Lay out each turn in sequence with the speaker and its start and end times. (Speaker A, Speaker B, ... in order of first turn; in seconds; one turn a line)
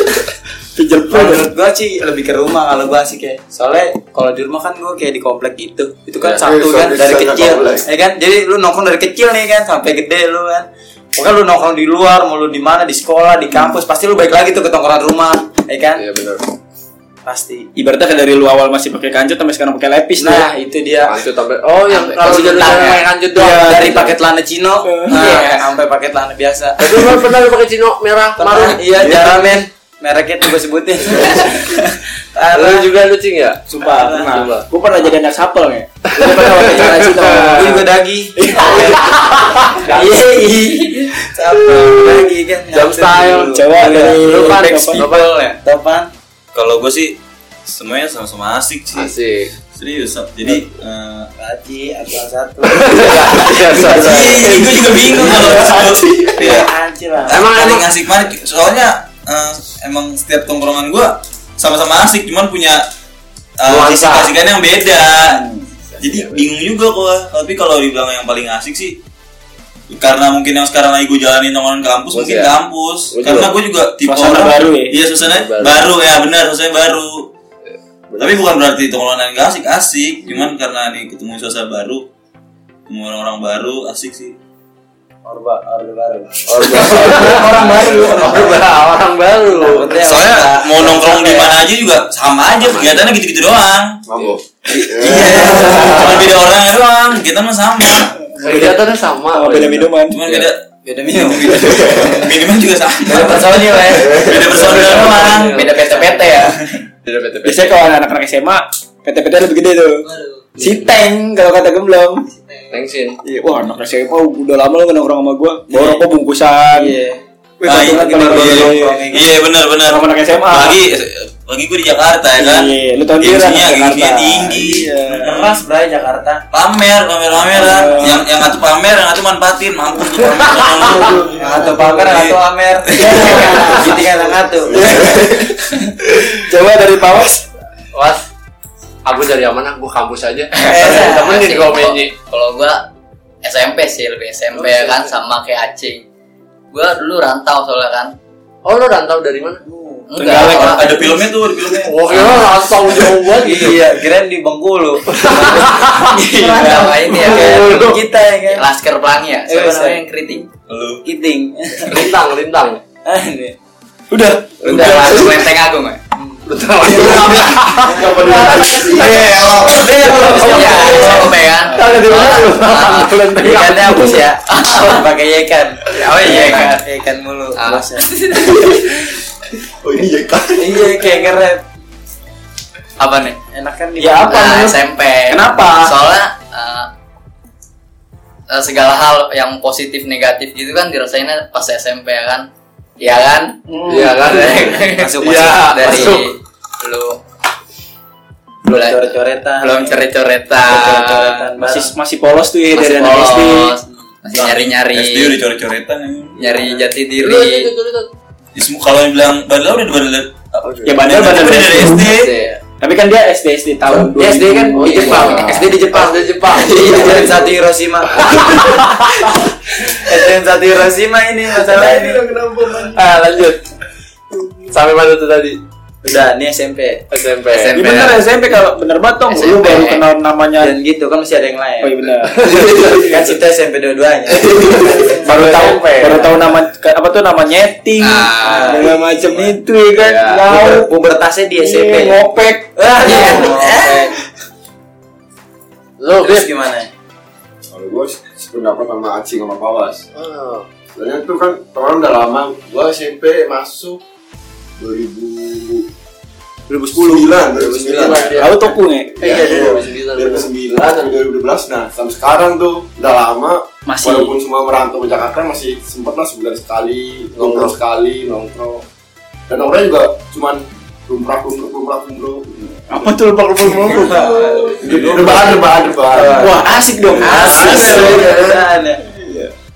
Speaker A: 0.8-1.5
Speaker B: 1.1-16.1
Speaker C: 6.4-7.8
Speaker D: 16.0-16.4
Speaker B: 17.2-17.7
Speaker A: 17.8-20.5
Speaker B: 20.2-21.2
Speaker D: 21.0-24.2
Speaker B: 21.9-27.3
Speaker E: 22.4-23.0
Speaker A: 24.8-25.6
Speaker E: 25.2-25.5
Speaker D: 26.8-29.4
Speaker B: 28.4-32.9
Speaker D: 32.5-33.6
Speaker A: 33.7-37.8
Speaker B: 33.8-34.5
Speaker D: 34.2-34.6
Speaker D: 36.2-37.8
Speaker B: 36.7-46.1
Speaker A: 38.4-39.8
Speaker D: 39.9-40.2
Speaker D: 41.7-45.5
Speaker A: 43.5-45.1
Speaker E: 45.0-45.5
Speaker F: 46.5-49.1
Speaker D: 48.9-49.5
Speaker F: 49.7-51.3
Speaker B: 51.4-53.6
Speaker D: 52.6-55.4
Speaker A: 53.8-54.6
Speaker F: 53.9-56.7
Speaker C: 55.4-56.4
Speaker B: 56.3-57.5
Speaker F: 57.3-62.8
Speaker D: 57.3-57.9
Speaker F: 63.6-65.4
Speaker D: 63.7-64.3
Speaker A: 65.3-65.6
Speaker D: 65.9-66.5
Speaker F: 66.0-69.0
Speaker F: 69.9-77.3
Speaker D: 72.1-72.6
Speaker D: 73.1-73.6
Speaker A: 74.0-75.0
Speaker D: 75.2-75.9
Speaker D: 77.7-78.5
Speaker F: 78.2-82.0
Speaker F: 82.9-84.3
Speaker B: 85.2-88.7
Speaker D: 86.5-90.1
Speaker A: 87.3-87.6
Speaker B: 89.3-91.6
Speaker F: 90.0-94.0
Speaker D: 92.6-93.2
Speaker C: 94.1-96.3
Speaker F: 94.7-98.3
Speaker D: 95.4-96.3
Speaker A: 98.3-100.3
Speaker D: 98.4-99.9
Speaker F: 100.1-105.6
Speaker B: 100.8-102.4
Speaker C: 101.7-102.1
Speaker B: 103.0-106.5
Speaker C: 103.9-105.1
Speaker D: 104.7-105.8
Speaker E: 105.5-106.4
Speaker A: 105.7-106.5
Speaker D: 107.0-107.8
Speaker A: 107.4-110.1
Speaker G: 110.0-110.5
Speaker D: 110.6-110.9
Speaker A: 110.6-112.2
Speaker G: 112.3-112.8
Speaker D: 112.7-113.2
Speaker A: 113.2-116.9
Speaker B: 116.7-119.3
Speaker A: 117.6-119.0
Speaker F: 117.7-125.6
Speaker A: 119.8-120.8
Speaker A: 122.4-125.3
Speaker B: 124.7-126.4
Speaker F: 126.5-133.8
Speaker A: 127.5-128.2
Speaker B: 130.4-135.1
Speaker G: 131.1-132.0
Speaker G: 133.1-134.7
Speaker C: 134.7-135.5
Speaker A: 134.9-135.3
Speaker A: 136.3-137.4
Speaker D: 137.9-138.2
Speaker D: 139.0-142.1
Speaker B: 140.6-141.4
Speaker E: 140.7-142.8
Speaker E: 143.4-146.0
Speaker D: 144.5-145.1
Speaker E: 146.7-148.1
Speaker D: 148.6-149.6
Speaker B: 149.6-150.1
Speaker E: 150.1-151.3
Speaker F: 150.2-152.5
Speaker D: 150.2-151.1
Speaker D: 151.7-153.8
Speaker E: 152.2-152.6
Speaker B: 153.3-158.7
Speaker D: 155.1-155.9
Speaker E: 156.1-160.5
Speaker A: 156.4-157.1
Speaker D: 157.3-157.9
Speaker B: 159.5-160.0
Speaker F: 160.7-161.0
Speaker B: 161.0-162.1
Speaker D: 161.9-162.8
Speaker B: 163.0-163.6
Speaker A: 164.1-165.0
Speaker D: 164.6-165.4
Speaker E: 164.6-166.0
Speaker B: 166.1-166.4
Speaker D: 166.4-169.5
Speaker C: 166.8-169.7
Speaker G: 167.8-169.2
Speaker F: 169.0-170.4
Speaker B: 169.7-178.1
Speaker A: 169.8-171.2
Speaker D: 170.0-174.1
Speaker E: 170.2-173.7
Speaker E: 174.5-175.0
Speaker E: 175.9-176.8
Speaker E: 177.6-178.6
Speaker C: 179.8-180.9
Speaker B: 180.6-181.6
Speaker E: 183.0-183.4
Speaker B: 183.5-184.5
Speaker A: 184.0-184.8
Speaker E: 184.2-186.9
Speaker A: 185.3-185.9
Speaker E: 188.5-192.5
Speaker E: 193.0-197.2
Speaker A: 193.7-194.2
Speaker D: 193.9-196.3
Speaker B: 194.9-196.2
Speaker B: 198.7-200.1
Speaker E: 198.7-201.5
Speaker B: 200.6-201.9
Speaker A: 201.6-203.7
Speaker E: 202.7-205.4
Speaker D: 203.0-203.3
Speaker F: 204.3-206.6
Speaker E: 206.4-207.7
Speaker D: 206.4-208.1
Speaker F: 208.5-212.4
Speaker D: 210.7-210.9
Speaker A: 210.8-212.1
Speaker D: 212.0-212.6
Speaker A: 212.7-215.7
Speaker B: 213.9-219.0
Speaker D: 214.7-217.6
Speaker E: 215.2-215.6
Speaker D: 218.1-218.6
Speaker B: 219.8-222.3
Speaker G: 221.6-223.1
Speaker D: 222.9-223.7
Speaker G: 224.3-224.8
Speaker D: 224.7-225.6
Speaker B: 226.0-227.0
Speaker D: 227.1-228.2
Speaker E: 227.5-228.0
Speaker A: 227.7-230.7
Speaker E: 229.3-230.0
Speaker B: 230.6-232.0
Speaker A: 231.8-232.9
Speaker D: 232.2-233.3
Speaker B: 232.6-235.9
Speaker D: 234.3-236.3
Speaker G: 234.8-235.3
Speaker A: 235.2-240.9
Speaker E: 238.0-238.9
Speaker B: 238.4-239.6
Speaker D: 239.9-240.5
Speaker B: 240.4-242.2
Speaker A: 241.6-243.9
Speaker B: 242.8-244.1
Speaker E: 243.0-243.8
Speaker D: 243.1-244.1
Speaker D: 246.0-246.5
Speaker B: 246.2-246.9
Speaker C: 247.7-250.1
Speaker D: 250.1-250.7
Speaker C: 250.9-254.0
Speaker C: 254.8-255.9
Speaker A: 256.7-257.3
Speaker C: 256.9-258.6
Speaker D: 257.5-260.5
Speaker A: 258.3-259.1
Speaker C: 259.1-268.8
Speaker A: 263.9-264.3
Speaker D: 267.4-267.8
Speaker C: 269.5-278.6
Speaker A: 272.9-274.6
Speaker B: 273.8-275.6
Speaker B: 276.1-276.6
Speaker A: 276.3-278.2
Speaker B: 277.2-279.0
Speaker D: 277.7-278.4